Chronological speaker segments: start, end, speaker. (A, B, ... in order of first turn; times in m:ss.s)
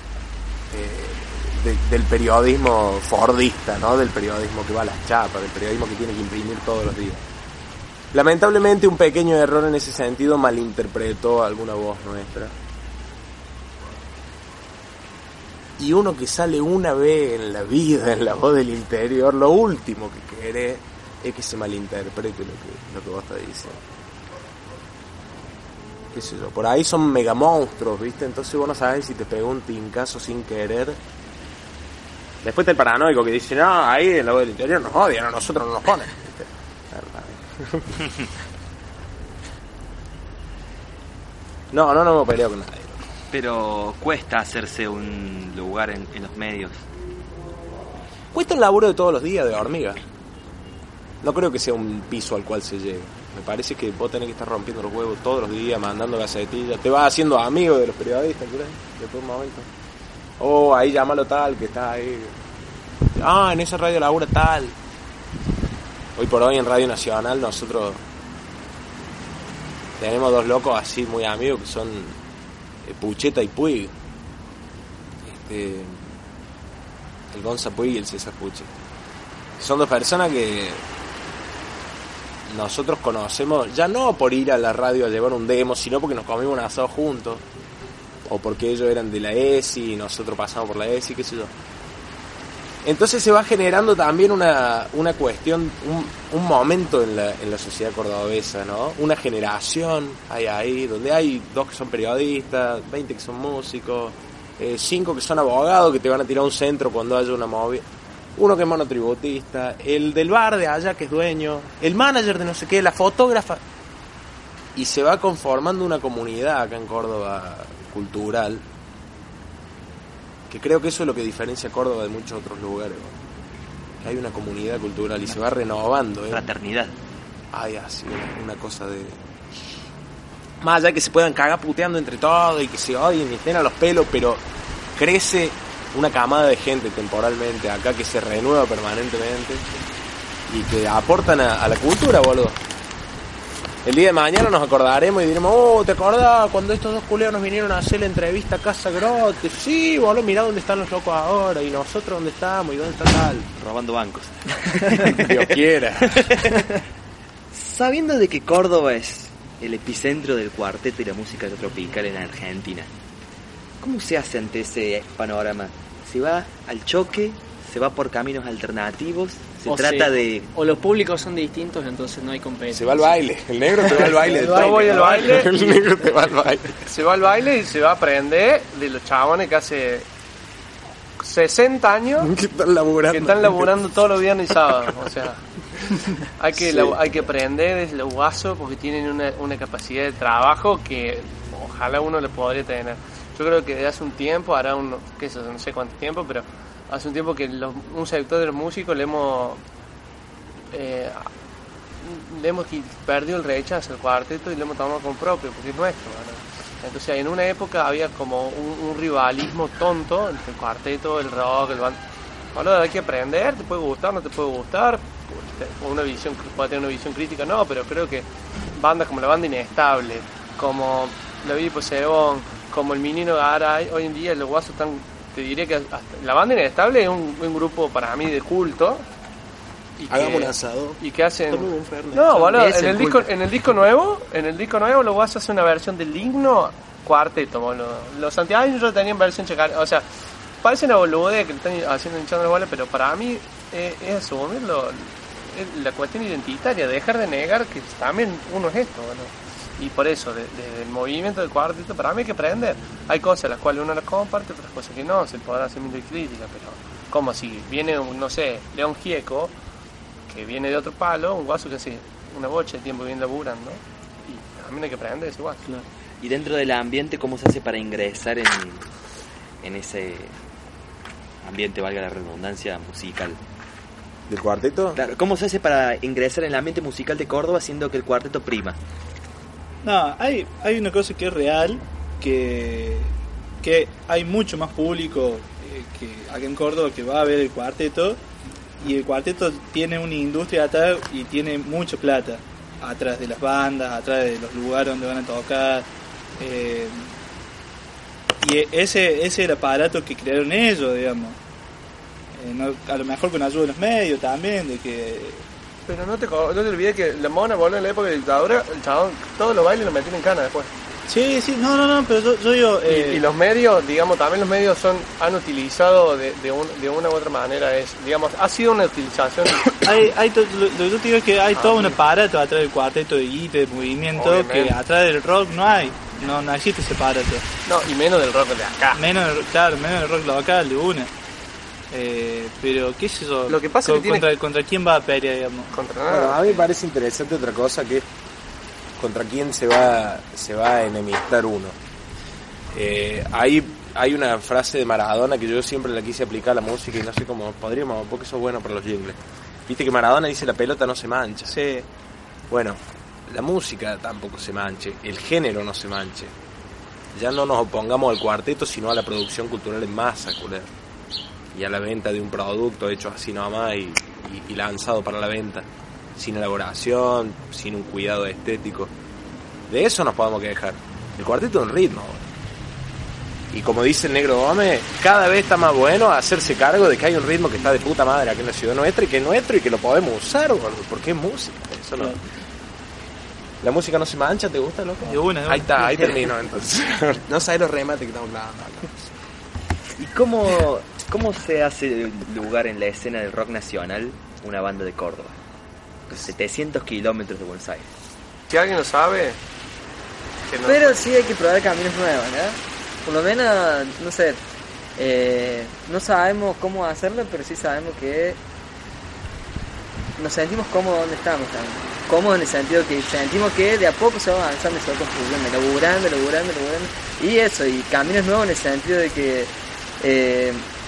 0:00.7-0:07.2 A
0:08.1-0:12.5 A
0:15.8-0:23.8 A
0:26.1-0:31.0 A
0:32.4-0:37.9 A
0:41.7-0:43.0 A
0:43.3-0:46.8 B
0:48.3-0:50.0 A
0:51.2-0:59.7 A
1:00.4-1:02.3 A
1:03.2-1:04.8 A
1:06.2-1:08.0 A
1:10.0-1:12.2 A
1:12.8-1:13.9 A
1:15.2-1:16.1 A
1:17.3-1:18.7 A
1:19.6-1:20.8 A
1:22.5-1:27.4 A
1:28.3-1:31.5 A
1:32.8-1:47.8 A
1:48.4-1:53.6 A
1:54.8-1:58.6 A
2:00.5-2:03.1 A
2:04.0-2:06.4 A
2:06.3-2:06.9 B
2:07.5-2:09.2 A
2:10.6-2:14.4 A
2:15.0-2:19.8 A
2:20.5-2:22.6 A
2:23.8-2:33.5 A
2:33.5-2:35.4 B
2:35.1-2:36.2 A
2:36.1-2:36.5 B
2:37.5-2:42.9 B
2:43.8-2:50.5 B
2:49.7-2:53.2 C
2:52.7-2:56.9 A
2:53.9-2:55.0 C
2:54.3-2:55.5 D
2:56.9-3:00.1 D
3:01.2-3:02.3 D
3:02.2-3:03.9 A
3:03.1-3:05.4 D
3:06.4-3:19.6 D
3:06.6-3:07.0 A
3:20.7-3:21.3 D
3:22.0-3:32.0 D
3:32.5-3:49.1 D
3:50.0-4:00.1 D
3:50.1-3:52.6 A
3:52.5-3:53.3 E
4:00.6-4:19.6 D
4:20.3-4:25.8 D
4:26.2-4:28.9 B
4:29.6-4:30.3 B
4:31.4-4:33.4 B
4:34.3-4:35.0 A
4:35.0-4:38.8 B
4:39.8-4:48.2 F
4:48.8-4:55.9 F
4:56.4-4:57.1 F
4:58.4-5:01.4 F
5:02.4-5:05.4 F
5:05.9-5:10.7 D
5:11.1-5:13.2 F
5:12.9-5:19.7 D
5:19.8-5:27.4 F
5:21.6-5:22.0 D
5:24.2-5:24.8 D
5:27.7-5:29.0 D
5:29.0-5:31.1 F
5:31.9-5:35.7 F
5:33.5-5:34.3 D
5:35.7-5:36.4 D
5:36.1-5:38.0 A
5:39.0-5:41.8 A
5:42.7-5:51.6 A
5:51.5-5:51.8 F
5:52.5-5:56.3 A
5:57.1-6:00.7 A
6:01.5-6:08.9 A
6:09.7-6:12.2 A
6:13.5-6:22.2 A
6:23.6-6:29.1 A
6:25.0-6:26.2 F
6:30.0-6:35.4 B
6:36.1-6:37.9 B
6:38.5-6:39.4 D
6:40.5-6:41.1 D
6:40.6-6:44.4 E
6:45.0-6:48.4 E
6:50.2-7:00.7 E